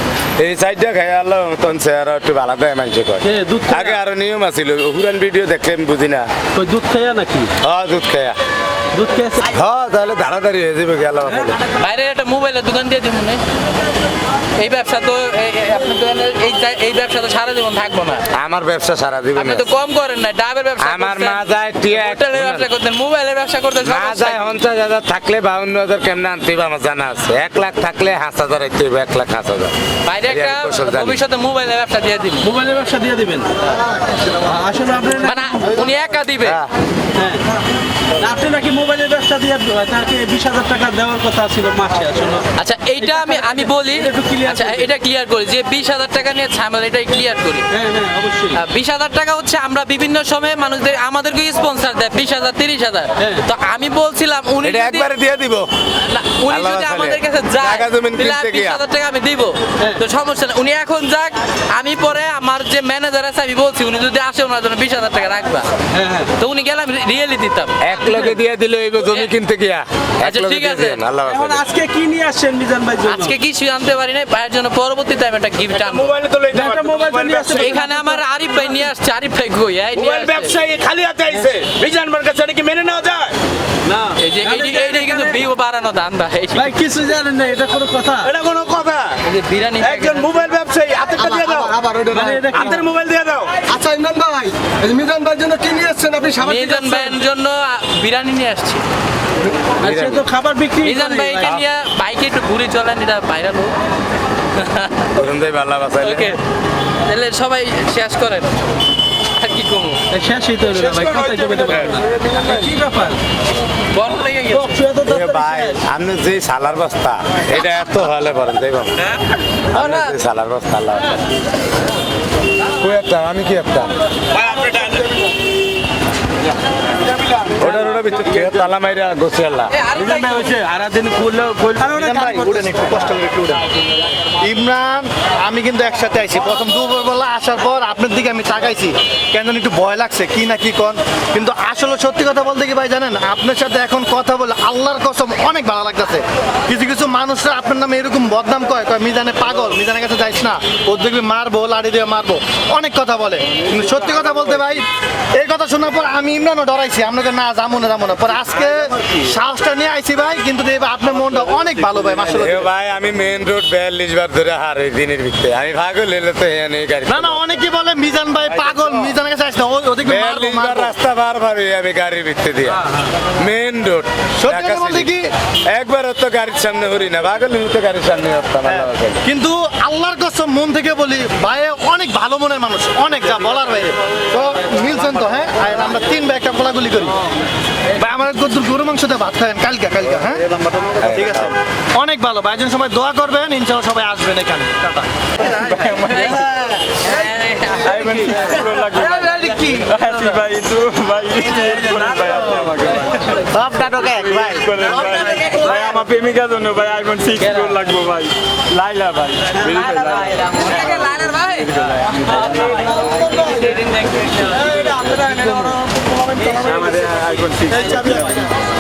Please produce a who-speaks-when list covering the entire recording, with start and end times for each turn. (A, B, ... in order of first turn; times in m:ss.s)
0:00.4-0:06.3 A
0:03.2-0:04.0 B
0:06.5-0:07.5 B
0:07.6-0:08.4 A
0:08.9-0:09.5 B
0:09.5-0:11.6 A
0:11.8-0:13.4 C
0:14.6-0:18.2 C
0:18.3-0:19.7 A
0:19.4-0:24.6 C
0:20.8-0:22.7 A
0:23.8-0:31.2 A
0:30.0-0:32.5 C
0:32.4-0:33.5 B
0:34.4-0:35.7 B
0:35.2-0:36.6 C
0:36.4-0:36.7 A
0:37.1-0:37.4 B
0:38.2-0:42.4 B
0:42.6-0:47.7 C
0:43.0-0:44.9 B
0:47.7-0:48.6 B
0:48.5-0:55.1 C
0:54.6-0:55.7 A
0:56.0-1:05.7 C
0:56.5-0:58.8 A
1:05.9-1:06.3 B
1:06.4-1:08.3 C
1:07.8-1:11.6 A
1:09.0-1:09.3 C
1:10.2-1:11.0 C
1:11.2-1:13.3 B
1:13.0-1:16.1 C
1:15.7-1:17.8 D
1:16.5-1:18.2 B
1:17.6-1:20.5 C
1:19.9-1:23.4 D
1:23.8-1:25.4 B
1:24.2-1:26.7 C
1:26.6-1:28.3 B
1:28.2-1:29.2 D
1:29.2-1:30.3 C
1:29.8-1:31.8 D
1:31.2-1:32.8 E
1:32.1-1:32.8 B
1:32.5-1:33.5 D
1:33.6-1:37.1 E
1:36.4-1:38.8 C
1:39.8-1:40.2 A
1:39.8-1:41.5 B
1:40.8-1:43.7 C
1:44.5-1:45.1 C
1:45.1-1:46.3 A
1:46.0-1:46.4 C
1:47.0-1:48.7 C
1:49.3-1:50.0 C
1:50.1-1:53.2 B
1:51.2-1:52.0 A
1:53.9-1:54.8 C
1:54.5-1:55.8 B
1:55.0-1:58.9 A
1:59.7-2:00.1 C
1:59.7-2:01.2 A
2:02.8-2:03.9 A
2:04.3-2:05.1 D
2:07.6-2:09.7 A
2:09.7-2:10.6 C
2:10.0-2:12.8 B
2:11.8-2:13.6 F
2:14.4-2:42.7 F
2:33.6-2:34.8 G
2:42.4-2:47.4 A
2:47.1-2:50.9 F
2:50.0-2:52.8 A
2:53.4-2:55.1 A
2:54.4-2:55.3 F
2:55.7-2:59.2 A
2:58.6-3:07.2 F
3:08.0-3:10.4 F
3:11.0-3:11.5 A
3:11.0-3:15.1 F
3:15.4-3:16.6 G
3:15.4-3:20.4 C
3:17.8-3:32.9 G
3:19.0-3:19.6 F
3:23.5-3:25.4 F
3:25.3-3:25.7 C
3:29.8-3:31.7 C
3:32.8-3:33.7 E
3:33.1-3:35.3 C
3:34.1-3:34.4 G
3:34.7-3:36.9 E
3:35.2-3:35.4 B
3:36.5-3:38.5 G